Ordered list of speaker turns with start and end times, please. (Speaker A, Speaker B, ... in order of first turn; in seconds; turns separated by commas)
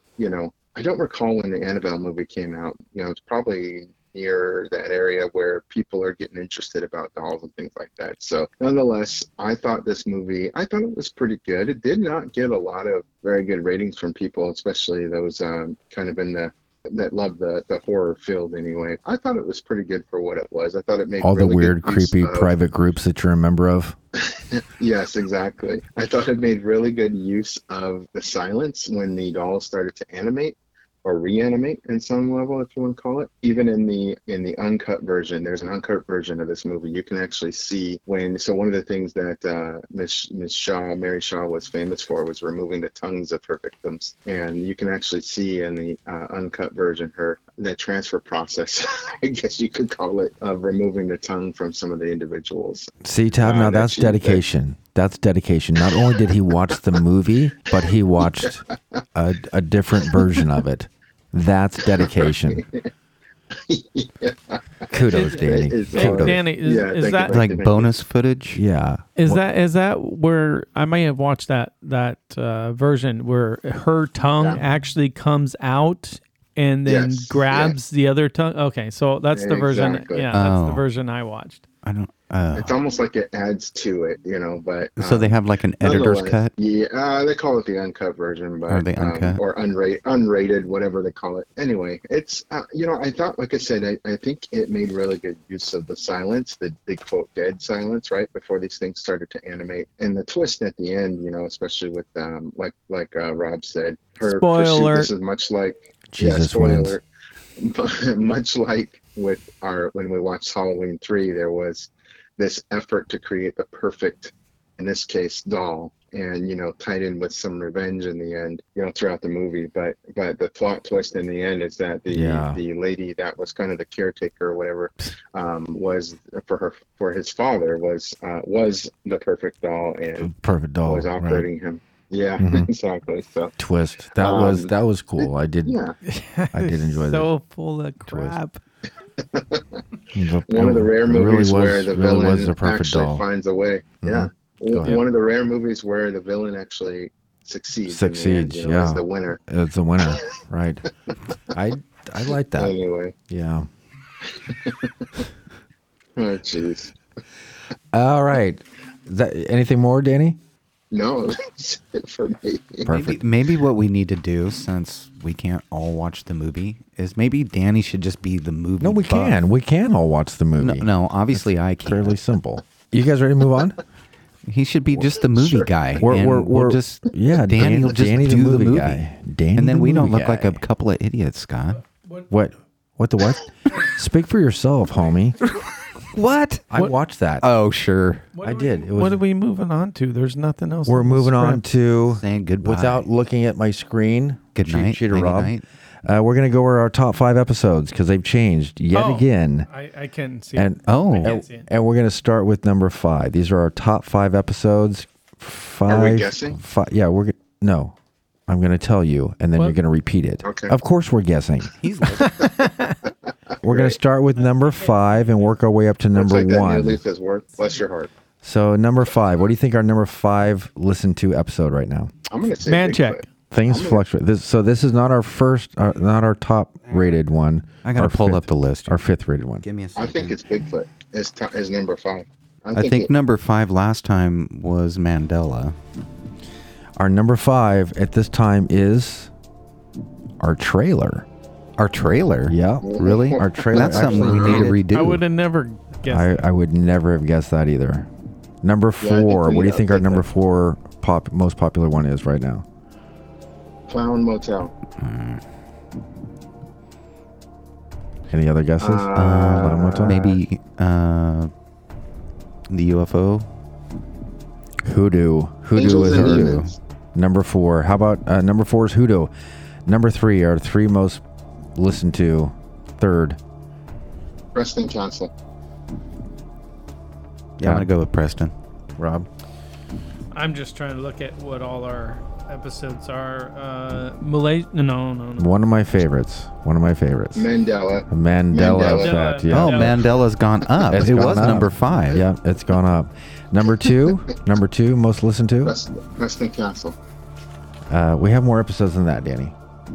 Speaker A: 0.2-22.5, Speaker B: 21.2-23.9, Speaker A: 24.3-54.4, Speaker B: 53.0-58.6, Speaker B: 59.1-62.6, Speaker A: 62.0-62.9, Speaker A: 63.5-68.0, Speaker B: 64.9-66.4, Speaker C: 65.9-67.5, Speaker D: 67.3-68.6, Speaker B: 68.5-69.4, Speaker C: 69.2-81.7, Speaker A: 76.8-77.8, Speaker A: 79.3-80.3, Speaker D: 80.3-80.8, Speaker D: 81.8-82.8, Speaker A: 82.5-107.0, Speaker D: 85.0-86.5, Speaker D: 88.7-89.4, Speaker C: 104.2-105.1, Speaker B: 106.1-106.9, Speaker A: 107.6-130.3, Speaker B: 122.1-122.6, Speaker B: 130.2-131.5, Speaker A: 130.8-133.5, Speaker B: 132.4-132.7, Speaker B: 133.6-135.8, Speaker A: 134.2-134.7, Speaker A: 135.6-135.9, Speaker C: 136.1-138.6, Speaker B: 136.5-137.3, Speaker B: 138.1-138.4, Speaker A: 139.2-139.8, Speaker B: 140.1-143.2, Speaker A: 140.5-149.4, Speaker B: 144.0-145.0, Speaker B: 147.9-150.8, Speaker B: 151.5-152.7, Speaker A: 152.5-153.1, Speaker B: 153.3-153.7, Speaker A: 154.2-155.2, Speaker A: 156.2-156.9, Speaker B: 157.9-160.4, Speaker A: 160.9-162.9, Speaker B: 162.8-163.2, Speaker D: 162.9-169.4, Speaker B: 168.8-173.8, Speaker D: 170.6-172.2, Speaker D: 174.4-179.0, Speaker B: 176.0-180.6, Speaker D: 179.6-181.8, Speaker C: 181.8-182.3, Speaker B: 182.3-185.4, Speaker D: 186.1-186.8, Speaker B: 186.7-187.4, Speaker D: 187.4-188.3, Speaker C: 188.3-191.6, Speaker B: 188.4-189.2, Speaker B: 190.9-199.7, Speaker D: 192.1-193.1, Speaker D: 194.6-195.6, Speaker C: 198.9-201.7, Speaker B: 200.5-207.9, Speaker D: 200.8-201.4, Speaker A: 205.8-206.6, Speaker B: 208.5-211.7, Speaker A: 210.4-210.7, Speaker D: 211.8-212.4, Speaker C: 212.2-212.9, Speaker A: 213.6-214.0, Speaker B: 213.6-217.0, Speaker C: 214.3-215.6, Speaker A: 216.1-218.1, Speaker B: 218.4-222.1, Speaker A: 222.3-224.0, Speaker C: 222.6-223.3, Speaker B: 223.5-229.7, Speaker D: 227.8-229.0, Speaker D: 229.6-230.4, Speaker A: 229.9-233.1, Speaker D: 232.7-235.8, Speaker B: 236.9-239.3, Speaker B: 240.4-241.3, Speaker D: 241.8-245.2, Speaker B: 242.5-244.8, Speaker A: 242.8-244.8, Speaker C: 244.9-246.4, Speaker B: 246.1-248.1, Speaker B: 248.6-252.6, Speaker A: 249.0-250.3, Speaker A: 253.9-254.7, Speaker D: 255.0-255.4, Speaker B: 258.3-260.3, Speaker A: 258.8-260.4, Speaker D: 259.1-261.5, Speaker D: 262.7-263.5, Speaker B: 264.8-266.6, Speaker A: 265.7-266.8, Speaker D: 265.9-266.7, Speaker B: 267.1-269.3, Speaker B: 269.9-271.2, Speaker B: 271.7-273.4, Speaker A: 274.5-275.3, Speaker D: 277.6-278.5, Speaker B: 277.6-277.9, Speaker B: 279.0-279.3, Speaker C: 280.3-285.5, Speaker B: 285.4-287.5, Speaker A: 287.3-289.4, Speaker B: 288.1-290.1, Speaker C: 288.6-290.3, Speaker D: 289.4-292.2, Speaker B: 290.9-295.7, Speaker A: 295.6-297.0, Speaker B: 297.9-299.5